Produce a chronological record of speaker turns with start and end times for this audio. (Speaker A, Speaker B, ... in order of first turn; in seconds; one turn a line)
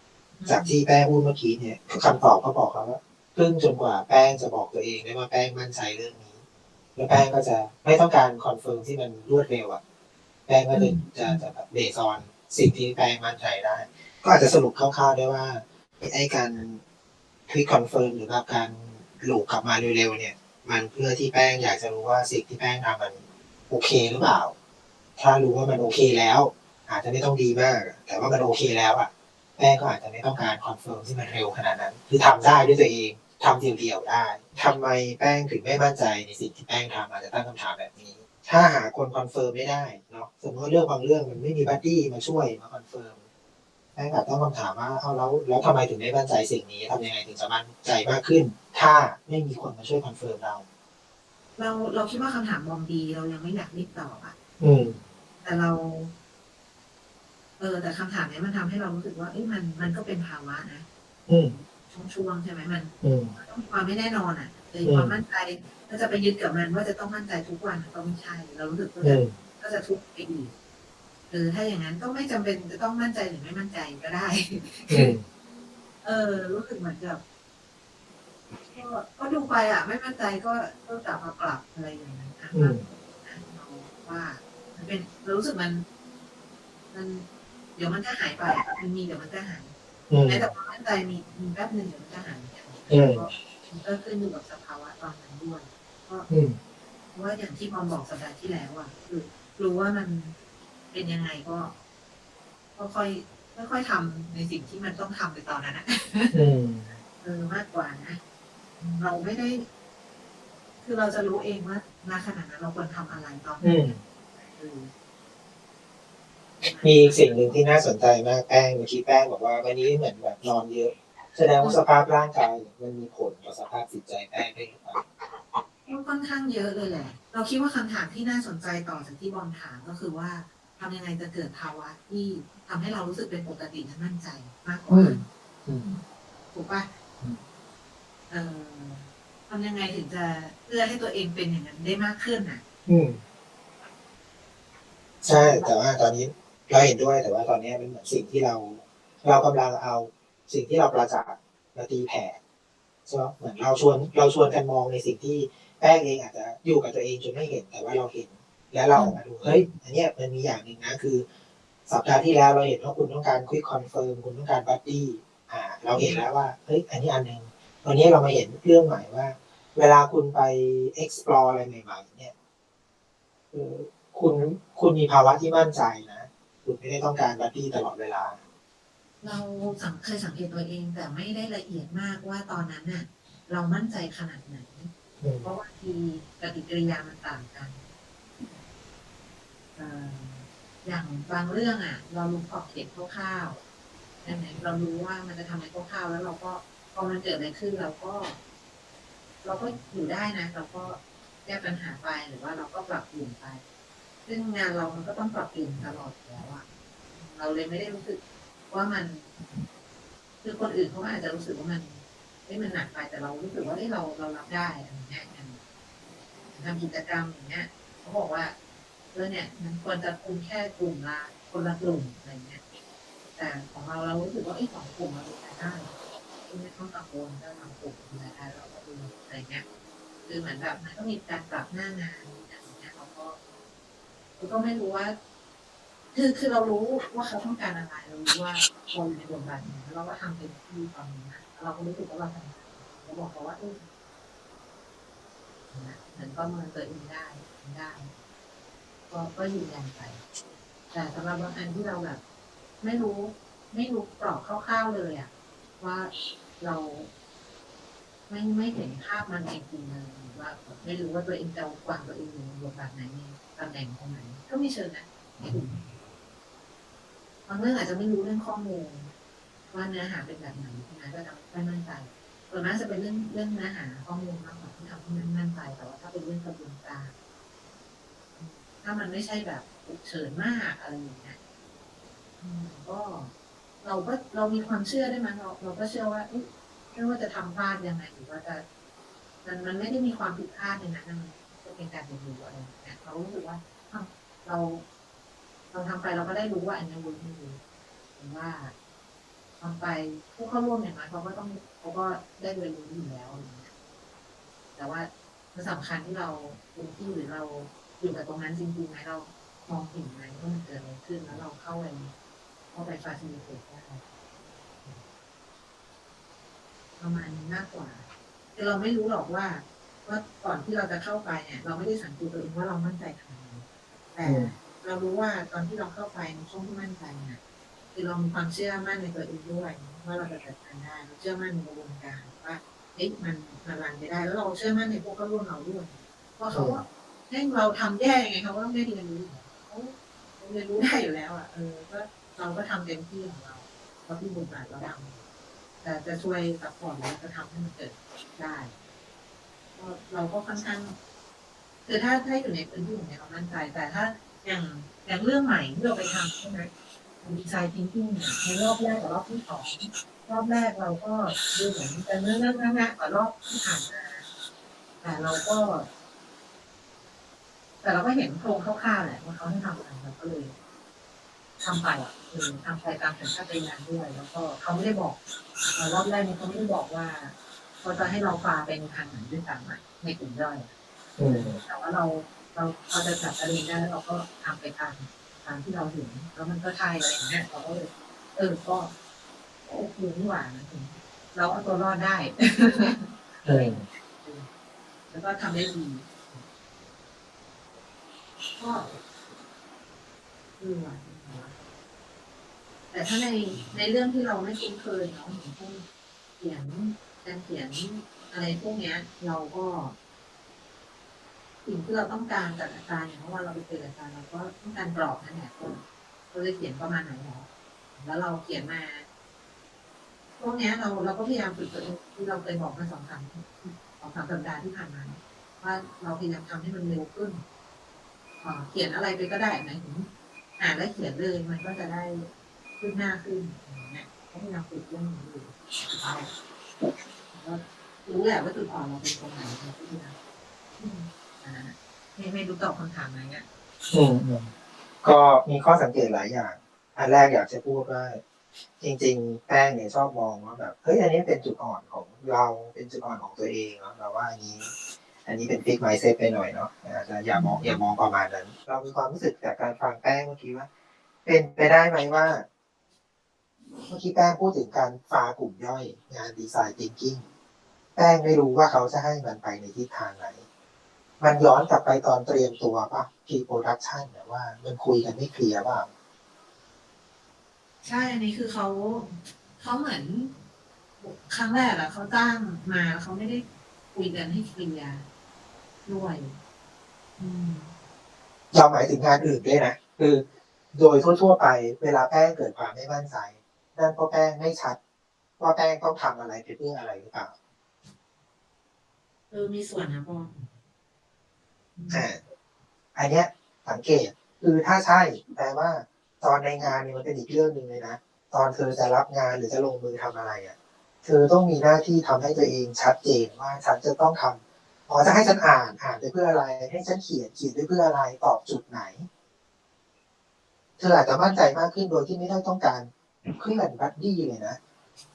Speaker A: 0.4-0.7
Speaker B: 0.5-6.4
Speaker B: 7.0-9.8
Speaker B: 10.5-16.8
Speaker A: 10.7-11.4
Speaker B: 17.5-24.5
Speaker B: 25.2-43.2
Speaker B: 44.0-50.6
Speaker A: 51.5-54.4
Speaker B: 54.6-55.0
Speaker A: 55.4-56.1
Speaker A: 57.6-60.9
Speaker B: 61.3-61.5
Speaker A: 61.5-70.5
Speaker B: 63.0-63.4
Speaker B: 64.8-65.1
Speaker B: 69.0-69.3
Speaker A: 71.3-75.1
Speaker B: 74.9-75.2
Speaker A: 76.0-77.2
Speaker A: 78.7-85.8
Speaker B: 82.5-82.8
Speaker A: 86.9-96.3
Speaker B: 90.1-90.5
Speaker B: 92.9-93.2
Speaker B: 96.3-96.5
Speaker A: 97.1-100.3
Speaker A: 100.9-101.7
Speaker A: 102.8-106.4
Speaker B: 106.3-107.0
Speaker A: 107.2-108.2
Speaker A: 108.8-109.7
Speaker A: 110.8-114.9
Speaker B: 113.6-114.0
Speaker A: 116.6-117.6
Speaker B: 116.8-125.0
Speaker A: 125.8-135.2
Speaker B: 134.9-136.0
Speaker A: 136.5-136.9
Speaker A: 138.3-142.6
Speaker B: 142.8-143.2
Speaker A: 145.2-145.7
Speaker B: 145.2-152.4
Speaker B: 153.1-161.2
Speaker A: 158.9-159.7
Speaker B: 161.9-172.3
Speaker A: 165.9-166.3
Speaker B: 173.5-178.4
Speaker A: 179.2-184.9
Speaker B: 185.2-185.5
Speaker A: 185.4-187.8
Speaker A: 189.7-193.6
Speaker A: 194.2-198.4
Speaker A: 199.4-203.6
Speaker A: 204.2-209.3
Speaker A: 210.4-215.6
Speaker A: 216.5-218.5
Speaker A: 219.1-222.6
Speaker A: 223.3-225.9
Speaker A: 226.5-229.6
Speaker A: 230.2-233.4
Speaker A: 234.4-235.2
Speaker A: 236.1-243.8
Speaker A: 245.7-248.2
Speaker A: 249.1-250.2
Speaker A: 250.9-252.2
Speaker A: 252.8-257.1
Speaker A: 258.3-265.9
Speaker A: 267.5-269.1
Speaker A: 269.7-277.1
Speaker A: 278.4-281.4
Speaker A: 282.4-288.6
Speaker A: 289.4-294.8
Speaker A: 295.7-297.6
Speaker A: 298.2-298.7
Speaker A: 299.6-303.7
Speaker A: 304.8-312.1
Speaker A: 312.7-314.0
Speaker A: 317.0-327.4
Speaker B: 324.2-324.5
Speaker A: 327.9-345.2
Speaker B: 336.5-336.8
Speaker A: 345.8-348.7
Speaker A: 349.8-351.0
Speaker A: 351.9-356.7
Speaker A: 357.2-364.2
Speaker A: 365.0-365.9
Speaker A: 367.8-370.5
Speaker A: 371.6-375.2
Speaker A: 375.7-380.7
Speaker B: 381.2-381.6
Speaker A: 381.2-388.9
Speaker A: 389.6-394.5
Speaker B: 393.4-393.8
Speaker A: 395.1-396.4
Speaker A: 398.6-398.9
Speaker A: 400.6-401.6
Speaker A: 402.9-405.9
Speaker A: 406.4-409.9
Speaker A: 411.6-419.1
Speaker A: 420.4-427.4
Speaker A: 428.4-432.3
Speaker A: 432.8-436.3
Speaker A: 437.3-440.1
Speaker A: 440.8-443.4
Speaker B: 443.9-444.5
Speaker B: 445.0-448.2
Speaker B: 448.8-454.7
Speaker B: 455.2-460.7
Speaker A: 457.3-457.8
Speaker B: 461.2-462.4
Speaker B: 463.9-467.2
Speaker B: 467.9-470.4
Speaker B: 471.2-475.9
Speaker A: 477.8-480.3
Speaker A: 481.0-485.1
Speaker A: 485.9-486.4
Speaker A: 487.2-487.7
Speaker B: 488.5-494.8
Speaker B: 495.4-497.3
Speaker A: 499.3-500.5
Speaker A: 501.8-502.1
Speaker B: 501.9-502.2
Speaker B: 502.9-519.1
Speaker B: 520.8-524.6